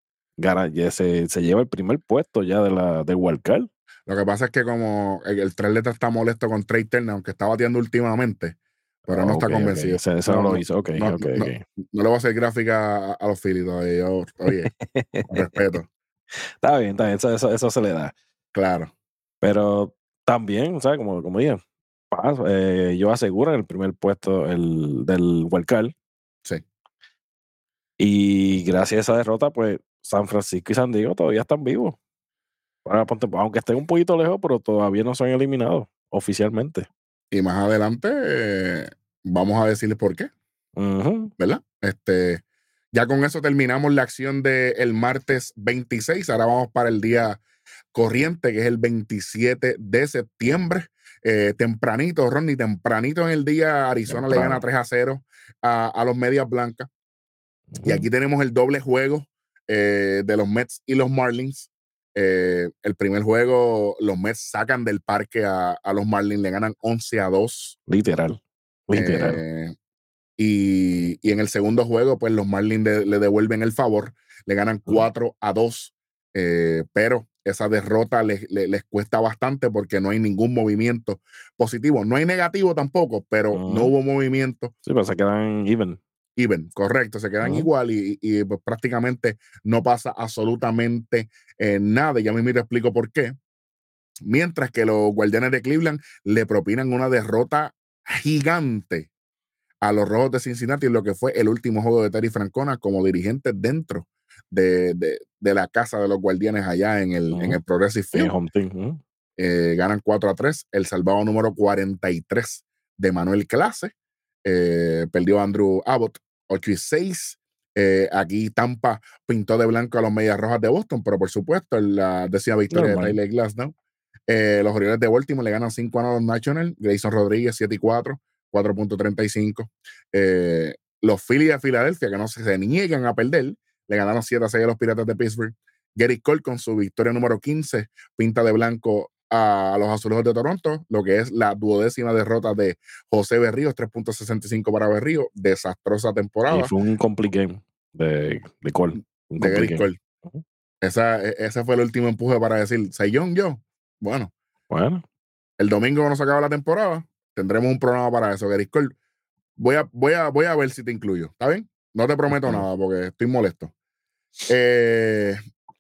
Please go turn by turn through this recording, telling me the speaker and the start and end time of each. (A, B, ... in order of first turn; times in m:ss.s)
0:00.4-0:03.7 A
0:04.1-0:08.6 B
0:09.0-0:11.6 A
0:09.1-0:14.7 B
0:14.5-0:15.6 A
0:15.3-0:15.9 B
0:16.3-0:18.1 A
0:18.5-0:18.9 B
0:19.4-0:25.9 A
0:28.0-0:32.0 A
0:32.8-0:36.9 A
0:37.3-0:40.3 B
0:40.8-0:41.3 A
0:41.4-0:47.4 B
0:47.9-0:56.9 B
0:54.1-0:54.6 A
0:57.7-0:58.1 A
0:57.8-1:07.8 B
1:07.9-1:09.4 A
1:08.9-1:09.7 B
1:10.4-1:24.7 B
1:23.5-1:23.9 A
1:24.8-1:26.0 A
1:26.4-1:33.3 B
1:27.4-1:27.7 A
1:34.2-1:39.1 B
1:39.8-1:48.3 B
1:47.3-1:47.6 A
1:48.1-1:49.0 A
1:49.4-1:53.9 B
1:54.4-2:03.7 B
2:02.7-2:03.2 A
2:04.3-2:26.7 B
2:26.5-2:30.4 A
2:29.4-2:30.0 B
2:30.8-2:34.3 B
2:34.7-2:35.0 A
2:35.6-2:38.9 B
2:39.6-2:43.7 B
2:42.3-2:42.6 A
2:44.5-2:45.4 B